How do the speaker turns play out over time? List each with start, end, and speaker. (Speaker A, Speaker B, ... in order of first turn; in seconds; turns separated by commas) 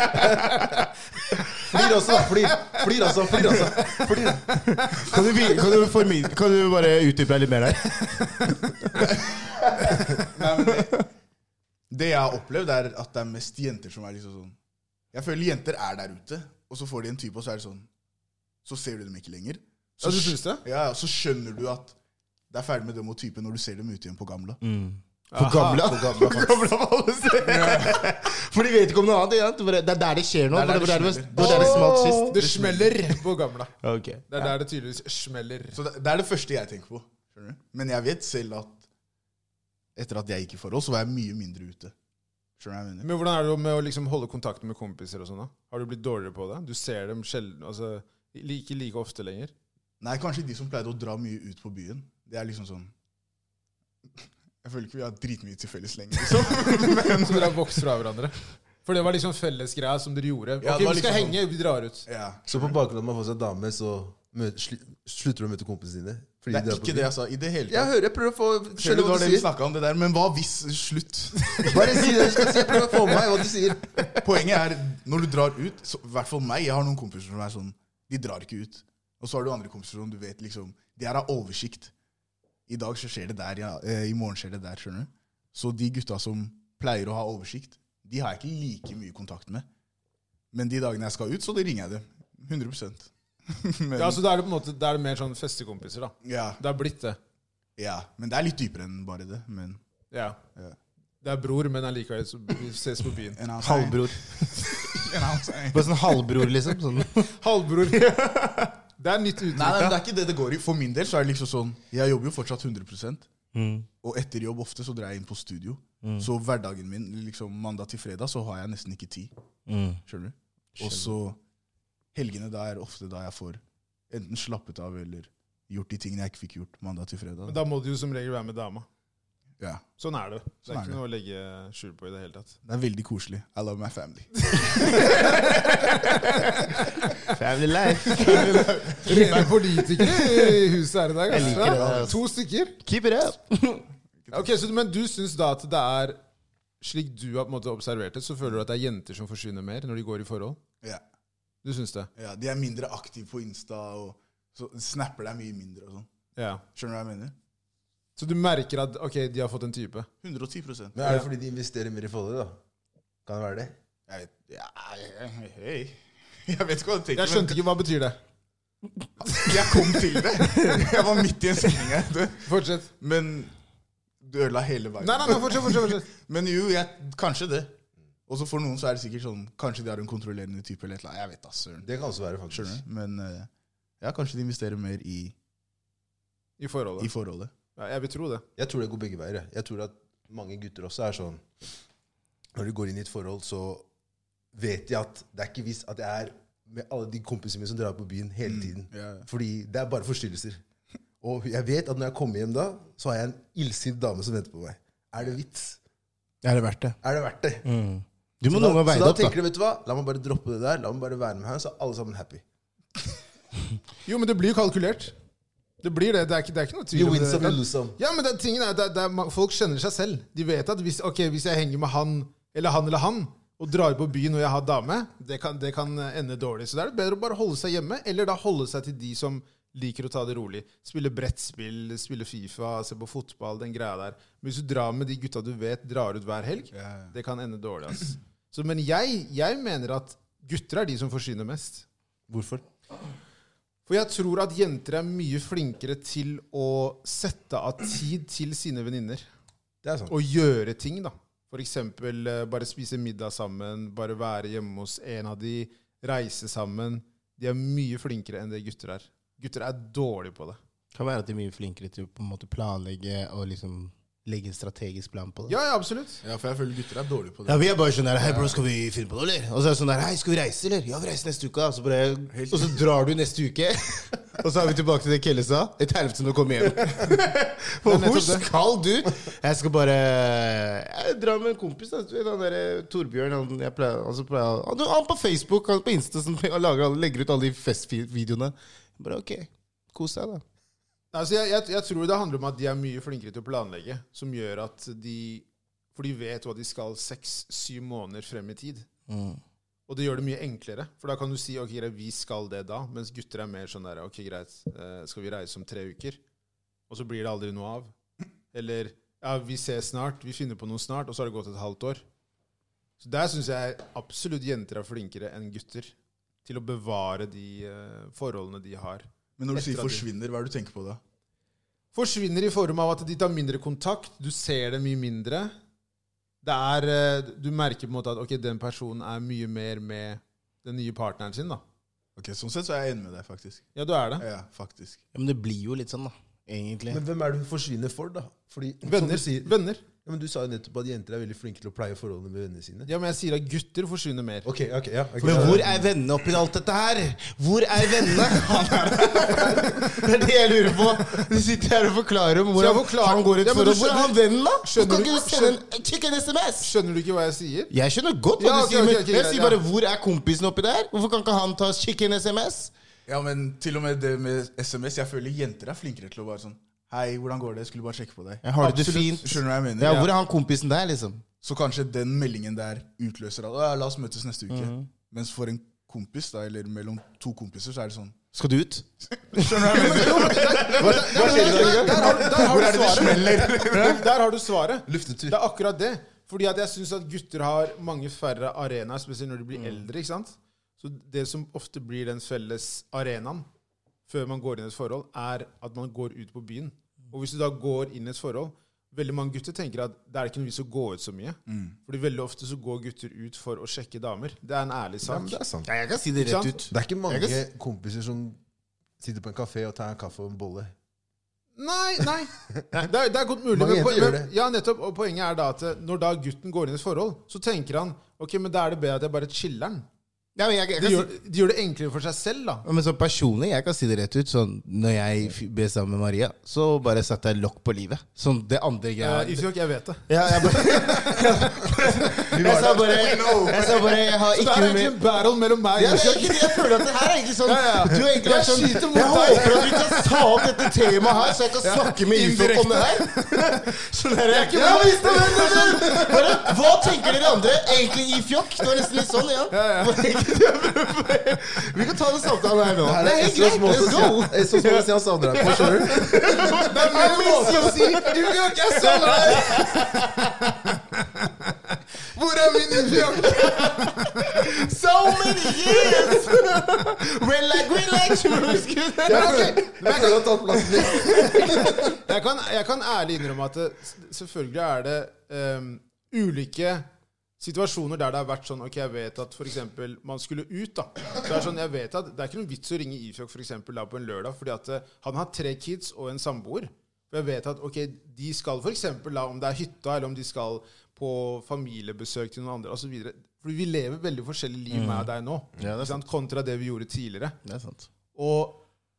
Speaker A: 1.6-4.6, Speaker B: 4.7-9.1, Speaker C: 5.1-5.6, Speaker C: 8.9-11.1, Speaker B: 9.8-10.1, Speaker C: 11.9-14.6, Speaker C: 15.1-17.9, Speaker C: 18.6-21.9, Speaker D: 20.0-20.6, Speaker C: 22.5-24.6, Speaker B: 24.6-32.4, Speaker D: 25.3-25.9, Speaker A: 25.7-26.6, Speaker C: 27.4-28.2, Speaker C: 30.5-32.8, Speaker A: 31.4-32.7, Speaker D: 31.6-33.7, Speaker B: 33.8-34.5, Speaker D: 34.3-35.8, Speaker C: 35.7-38.8, Speaker C: 39.9-41.9, Speaker C: 42.6-43.1, Speaker D: 43.0-49.5, Speaker C: 50.0-52.9, Speaker C: 54.6-57.8, Speaker D: 56.7-62.0, Speaker C: 60.6-61.4, Speaker C: 62.0-62.8, Speaker A: 62.5-67.1, Speaker C: 66.5-67.9, Speaker A: 67.7-69.5, Speaker C: 68.8-73.2, Speaker A: 71.6-74.2, Speaker C: 74.2-81.9, Speaker C: 82.7-89.7, Speaker C: 90.5-94.2, Speaker D: 94.0-97.2, Speaker C: 96.2-96.6, Speaker C: 97.8-99.8, Speaker D: 100.1-100.4, Speaker D: 101.2-103.4, Speaker C: 103.3-106.2, Speaker B: 103.6-105.1, Speaker B: 105.7-107.3, Speaker D: 107.3-108.1, Speaker B: 107.8-108.8, Speaker D: 109.0-110.0, Speaker C: 109.5-113.3, Speaker B: 113.5-113.9, Speaker C: 114.0-119.3, Speaker B: 116.0-116.3, Speaker B: 119.7-120.0, Speaker C: 120.0-121.4, Speaker B: 120.8-121.1, Speaker C: 122.1-127.6, Speaker D: 127.5-128.8, Speaker C: 129.6-129.9, Speaker D: 130.0-132.6, Speaker C: 130.7-131.0, Speaker C: 132.6-136.5, Speaker D: 134.7-136.4, Speaker B: 137.2-140.7, Speaker C: 138.1-139.2, Speaker D: 139.0-142.8, Speaker B: 141.3-142.2, Speaker C: 141.3-142.2, Speaker B: 142.8-143.9, Speaker C: 144.2-144.5, Speaker D: 144.3-146.2, Speaker D: 146.8-150.6, Speaker D: 151.6-152.1, Speaker C: 152.2-156.1, Speaker D: 156.4-156.6, Speaker C: 156.7-157.3, Speaker D: 158.2-160.1, Speaker C: 160.2-161.1, Speaker A: 160.9-162.6, Speaker A: 163.2-163.7, Speaker C: 164.1-167.6, Speaker D: 167.2-168.2, Speaker C: 169.2-173.5, Speaker B: 170.6-170.9, Speaker D: 172.4-172.9, Speaker C: 174.2-177.7, Speaker D: 175.0-176.1, Speaker C: 178.3-181.9, Speaker A: 181.8-182.8, Speaker C: 182.5-183.5, Speaker C: 184.0-185.3, Speaker D: 186.6-187.1, Speaker C: 187.0-187.5, Speaker D: 187.7-188.4, Speaker A: 188.6-191.4, Speaker A: 192.5-193.8, Speaker A: 194.5-200.6, Speaker C: 198.4-199.2, Speaker A: 201.2-205.8, Speaker B: 206.4-207.0, Speaker A: 207.0-207.7, Speaker B: 207.6-209.4, Speaker A: 208.5-212.4, Speaker D: 214.1-215.1, Speaker D: 215.8-241.8, Speaker A: 216.9-218.0, Speaker C: 236.7-237.1, Speaker A: 242.3-242.6, Speaker D: 243.9-249.3, Speaker A: 249.8-250.1, Speaker D: 250.1-260.6, Speaker B: 260.9-265.6, Speaker D: 265.5-266.2, Speaker C: 266.2-267.7, Speaker B: 267.5-290.4, Speaker C: 272.3-272.8, Speaker D: 277.8-278.5, Speaker D: 291.1-298.9, Speaker B: 299.1-299.4, Speaker D: 299.9-306.2, Speaker D: 306.9-307.9, Speaker D: 308.5-312.0, Speaker D: 313.0-315.9, Speaker D: 316.4-320.0, Speaker C: 319.4-321.0, Speaker D: 321.9-325.5, Speaker D: 326.4-331.6, Speaker C: 332.1-335.0, Speaker D: 333.7-334.2, Speaker B: 335.1-337.0, Speaker A: 336.9-342.9, Speaker D: 338.8-339.8, Speaker D: 342.9-344.5, Speaker A: 344.4-345.9, Speaker B: 345.2-356.7, Speaker C: 348.0-350.1, Speaker D: 352.5-355.6, Speaker D: 356.6-357.7, Speaker B: 357.7-362.7, Speaker D: 358.4-359.6, Speaker C: 363.1-370.1, Speaker B: 368.4-371.2, Speaker C: 371.4-378.3, Speaker B: 374.5-374.9, Speaker B: 378.3-382.3, Speaker C: 379.1-380.8, Speaker D: 379.7-393.4, Speaker A: 380.6-382.5, Speaker C: 381.7-384.1, Speaker B: 383.7-384.0, Speaker A: 384.9-385.4, Speaker B: 389.5-389.8, Speaker D: 394.1-405.4, Speaker C: 401.5-401.8, Speaker A: 405.0-405.7, Speaker B: 405.6-407.4, Speaker D: 406.2-406.6, Speaker A: 406.7-408.4, Speaker A: 409.0-410.7, Speaker D: 411.6-419.9, Speaker A: 413.5-414.3, Speaker B: 420.4-421.1, Speaker D: 420.8-422.6, Speaker B: 422.6-429.5, Speaker D: 429.0-432.3, Speaker B: 430.1-435.0, Speaker A: 432.3-433.2, Speaker C: 432.5-434.1, Speaker D: 433.7-441.3, Speaker B: 435.7-460.8, Speaker C: 441.6-443.0, Speaker D: 444.3-447.4, Speaker D: 449.5-450.2, Speaker A: 452.8-456.3, Speaker D: 453.8-454.2, Speaker D: 455.4-460.8, Speaker D: 461.7-464.5, Speaker B: 462.7-470.1, Speaker D: 465.1-466.1, Speaker A: 469.0-471.9, Speaker D: 469.1-470.2, Speaker B: 470.6-471.9, Speaker D: 471.1-476.9, Speaker D: 477.4-497.4, Speaker B: 494.7-496.0, Speaker B: 497.4-497.9, Speaker D: 498.1-498.6